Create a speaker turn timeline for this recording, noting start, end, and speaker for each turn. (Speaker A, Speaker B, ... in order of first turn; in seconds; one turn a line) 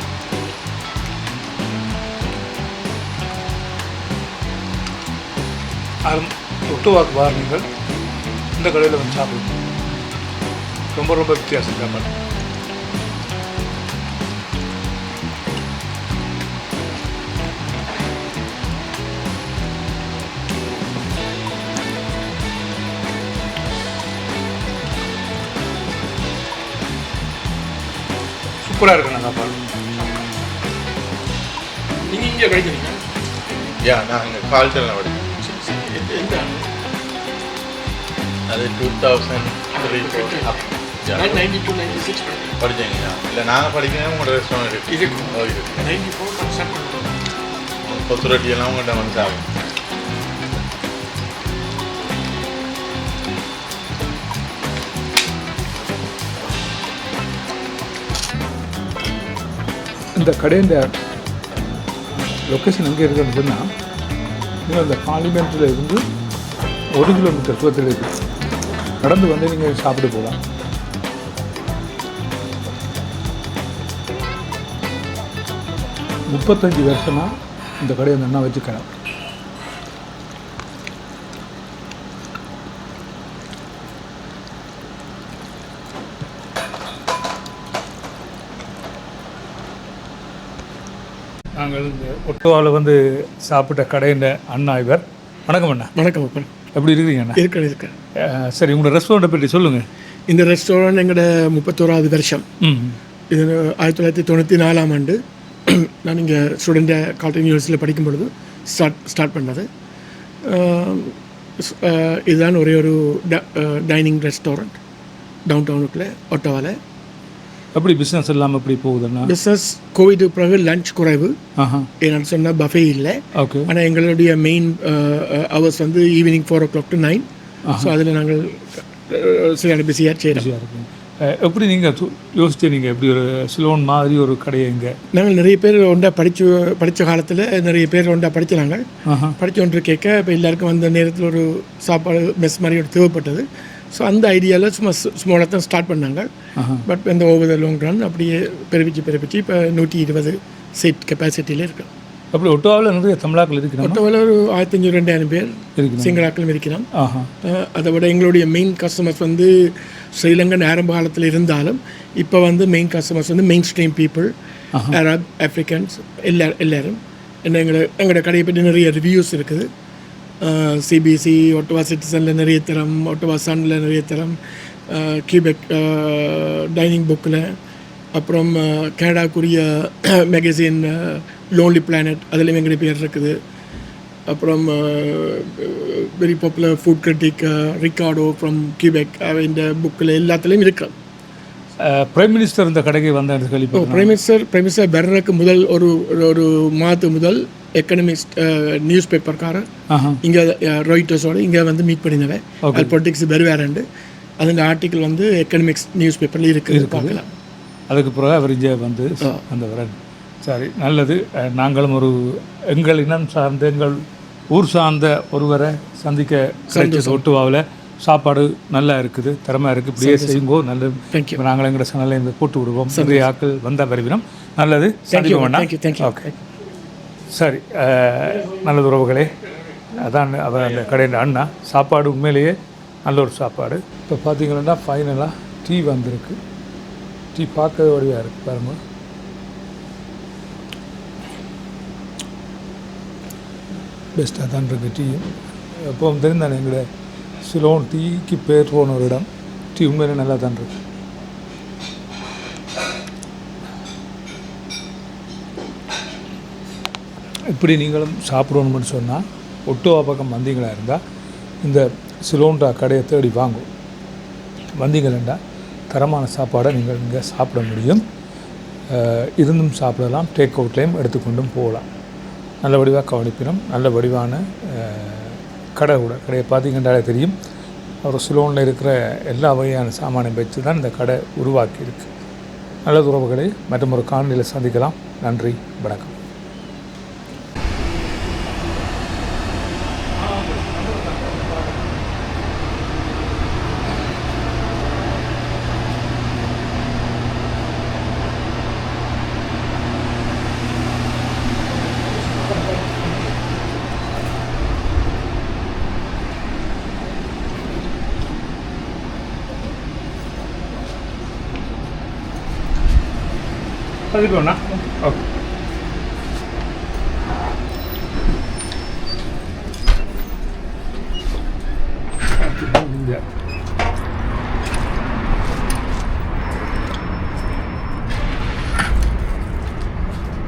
Speaker A: 6.0-7.7
Speaker A: 8.6-9.5
Speaker A: 10.9-12.1
Speaker A: 28.6-29.6
Speaker B: 32.0-33.0
Speaker C: 33.8-35.3
Speaker B: 35.4-36.6
Speaker C: 38.5-41.4
Speaker B: 39.7-40.5
Speaker B: 41.1-42.6
Speaker C: 42.6-45.9
Speaker B: 44.9-47.1
Speaker C: 47.8-49.5
Speaker A: 60.2-60.9
Speaker A: 62.5-63.7
Speaker A: 64.7-66.0
Speaker A: 67.0-68.1
Speaker A: 69.0-70.4
Speaker A: 76.3-78.9
Speaker A: 91.6-95.9
Speaker B: 96.0-96.5
Speaker A: 96.8-97.4
Speaker B: 97.4-98.0
Speaker A: 98.2-99.9
Speaker B: 100.3-102.5
Speaker A: 102.6-103.0
Speaker B: 103.3-109.7
Speaker B: 110.4-114.8
Speaker B: 115.5-116.8
Speaker A: 117.7-119.3
Speaker B: 119.2-121.4
Speaker A: 121.6-121.9
Speaker B: 122.0-127.3
Speaker A: 123.3-123.7
Speaker A: 127.7-127.9
Speaker B: 127.8-130.5
Speaker A: 130.3-134.9
Speaker B: 135.2-138.8
Speaker A: 139.1-139.4
Speaker B: 139.4-146.3
Speaker A: 146.6-146.8
Speaker B: 146.8-151.9
Speaker A: 152.3-154.0
Speaker B: 153.8-156.9
Speaker A: 155.8-156.3
Speaker A: 156.9-157.3
Speaker B: 157.4-164.3
Speaker B: 164.9-169.7
Speaker B: 170.4-177.6
Speaker B: 178.2-183.4
Speaker B: 184.3-190.9
Speaker A: 191.8-194.1
Speaker B: 193.7-199.7
Speaker A: 199.9-200.2
Speaker B: 200.2-203.9
Speaker A: 202.6-202.9
Speaker B: 204.4-207.3
Speaker A: 206.7-207.2
Speaker A: 207.9-226.4
Speaker B: 216.7-217.3
Speaker B: 220.0-220.5
Speaker B: 221.1-221.4
Speaker B: 222.9-223.3
Speaker B: 225.1-226.4
Speaker A: 227.3-229.3
Speaker A: 230.0-236.4
Speaker A: 237.3-238.8
Speaker A: 244.2-246.9
Speaker A: 247.4-250.8
Speaker A: 257.5-261.0
Speaker A: 261.6-263.7
Speaker A: 264.8-268.0
Speaker A: 268.9-271.9
Speaker A: 272.6-277.4
Speaker A: 278.0-282.1
Speaker A: 282.9-286.2
Speaker A: 290.2-292.0
Speaker A: 314.1-315.2
Speaker A: 322.4-323.2